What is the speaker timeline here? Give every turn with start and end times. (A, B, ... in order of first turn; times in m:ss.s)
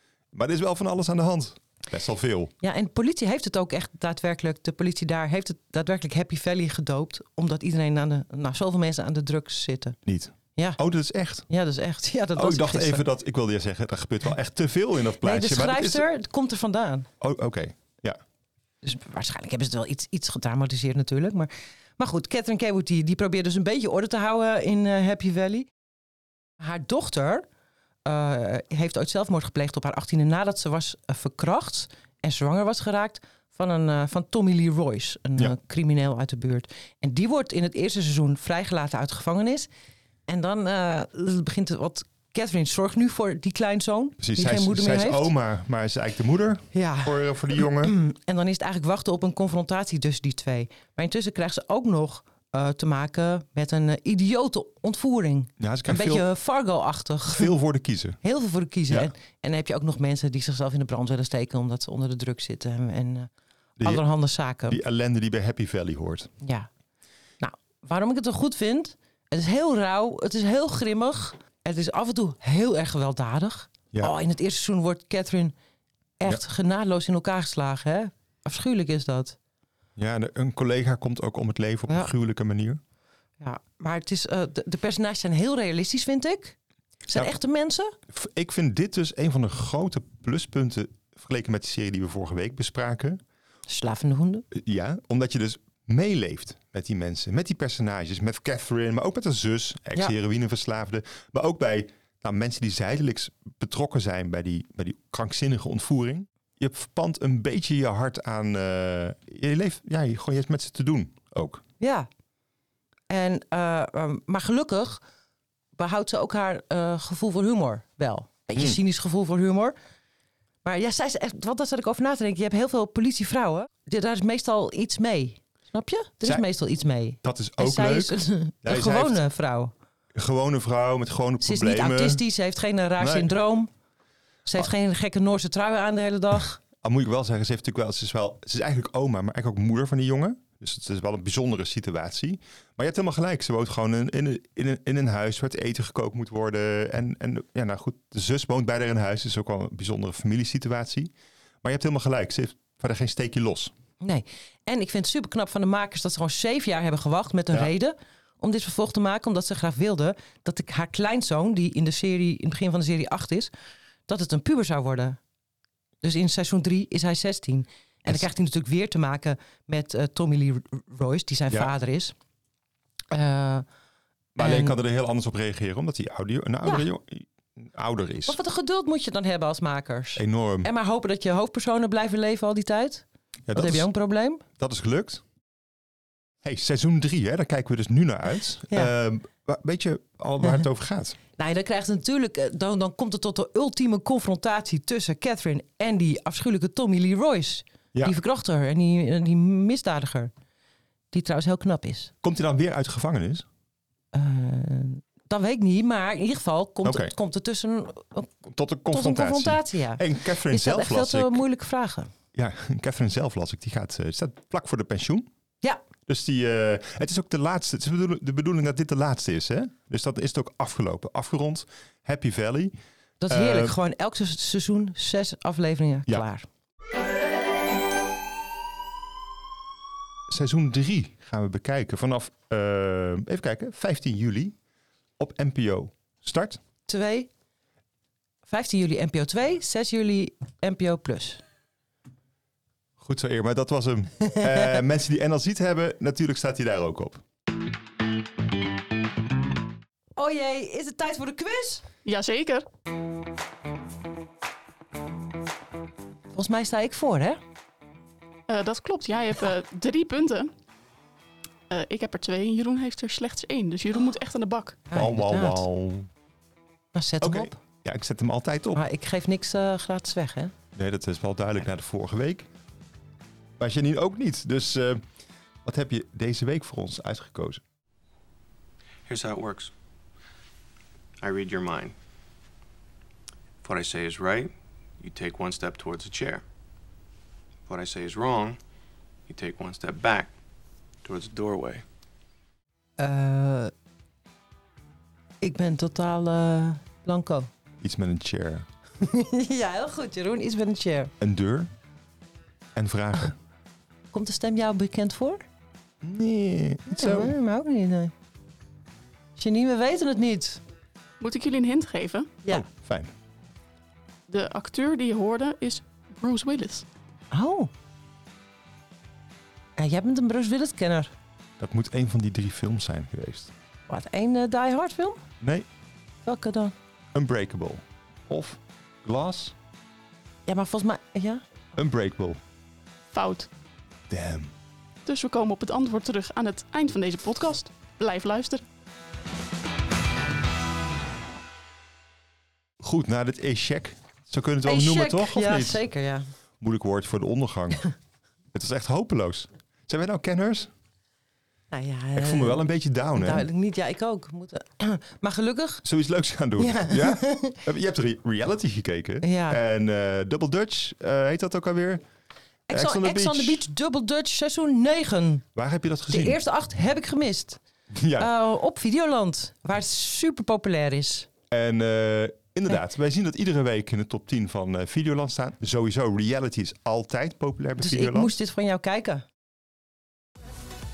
0:00.3-0:02.5 A
0:02.6-0:10.0 B
0:10.1-0:11.4 A
0:11.5-0:13.0 B
0:12.4-0:16.1 A
0:15.2-0:17.1 B
0:17.2-0:18.2 A
0:18.8-0:25.7 B
0:26.6-0:27.4 B
0:28.0-0:39.7 B
0:40.3-0:45.3 B
0:44.2-0:48.0 A
0:46.7-0:57.5 B
0:55.6-0:56.3 A
0:57.3-0:58.2 A
0:58.2-1:03.3 B
1:03.8-1:04.0 A
1:03.8-1:04.8 B
1:04.7-1:06.3 A
1:06.4-1:06.7 B
1:07.4-1:15.5 B
1:16.2-1:19.4 B
1:20.0-1:22.8 A
1:23.4-1:28.0 B
1:28.1-1:33.2 A
1:33.7-1:34.5 B
1:34.5-1:51.6 A
1:51.8-1:52.1 B
1:53.1-1:55.0 B
1:55.8-1:59.8 B
1:58.6-1:58.8 A
2:00.6-2:09.7 B
2:07.2-2:09.2 A
2:10.2-2:12.2 A
2:11.4-2:13.7 B
2:13.0-2:13.3 A
2:14.5-2:16.6 B
2:16.8-2:31.1 A
2:31.6-2:33.7 A
2:34.0-2:43.5 B
2:44.1-2:45.2 B
2:46.0-2:52.2 B
2:53.1-2:53.7 B
2:54.4-2:58.4 A
2:54.4-2:54.8 B
2:58.3-3:04.4 B
3:00.2-3:00.7 A
3:03.5-3:03.9 A
3:04.6-3:05.2 A
3:06.4-3:11.2 A
3:11.4-3:20.3 B
3:21.1-3:22.1 B
3:22.2-3:23.5 A
3:24.1-3:28.3 B
3:26.8-3:27.1 A
3:28.4-3:31.4 A
3:28.9-3:32.1 B
3:32.3-3:35.3 A
3:36.1-3:42.8 A
3:43.2-3:46.5 B
3:43.3-3:43.8 A
3:50.3-3:54.6 A
3:55.2-3:56.6 A
3:56.9-3:57.3 B
3:58.5-4:01.4 B
4:03.0-4:07.2 A
4:10.2-4:11.8 B
4:12.0-4:12.6 C
4:16.3-4:17.4 B
4:18.5-4:20.5 C
4:21.7-4:24.8 C
4:24.9-4:25.7 B
4:24.9-4:26.1 A
4:26.9-4:27.6 B
4:27.2-4:28.8 A
4:28.8-4:30.5 B
4:30.8-4:32.5 A
4:33.6-4:35.0 A
4:35.6-4:37.6 A
4:39.1-4:39.7 D
4:41.2-4:42.0 D
4:43.6-4:46.4 D
4:47.7-4:48.6 D
4:49.3-4:50.3 D
4:51.0-4:51.8 D
4:53.0-4:53.7 B
4:55.4-4:57.5 B
4:57.8-4:58.7 A
4:59.0-5:01.1 B
5:01.2-5:01.7 A
5:02.8-5:03.4 A
5:04.1-5:05.4 B
5:06.0-5:07.4 A
5:06.9-5:08.1 B
5:09.4-5:10.6 B
5:11.2-5:12.4 C
5:12.5-5:13.1 A
5:14.3-5:16.9 C
5:17.3-5:17.7 B
5:19.8-5:21.1 B
5:21.6-5:23.5 A
5:23.9-5:25.2 B
5:25.4-5:25.7 A
5:26.2-5:26.7 B
5:27.1-5:29.6 A
5:30.5-5:31.4 B
5:31.8-5:32.4 A
5:33.1-5:33.5 C
5:34.1-5:34.5 A
5:35.1-5:38.6 C
5:42.8-5:45.8 A
5:44.6-5:46.3 B
5:46.6-5:47.8 A
5:48.5-5:50.7 A
5:51.7-5:52.6 B
5:52.2-5:53.5 A
5:53.2-5:55.8 B
5:55.8-6:02.0 A
5:56.6-5:57.6 B
5:59.2-5:59.6 B
6:02.7-6:05.4 B
6:02.7-6:03.7 A
6:05.6-6:06.4 A
6:06.1-6:07.6 B
6:07.9-6:08.3 A
6:08.2-6:11.3 B
6:11.5-6:18.4 A
6:17.8-6:19.2 B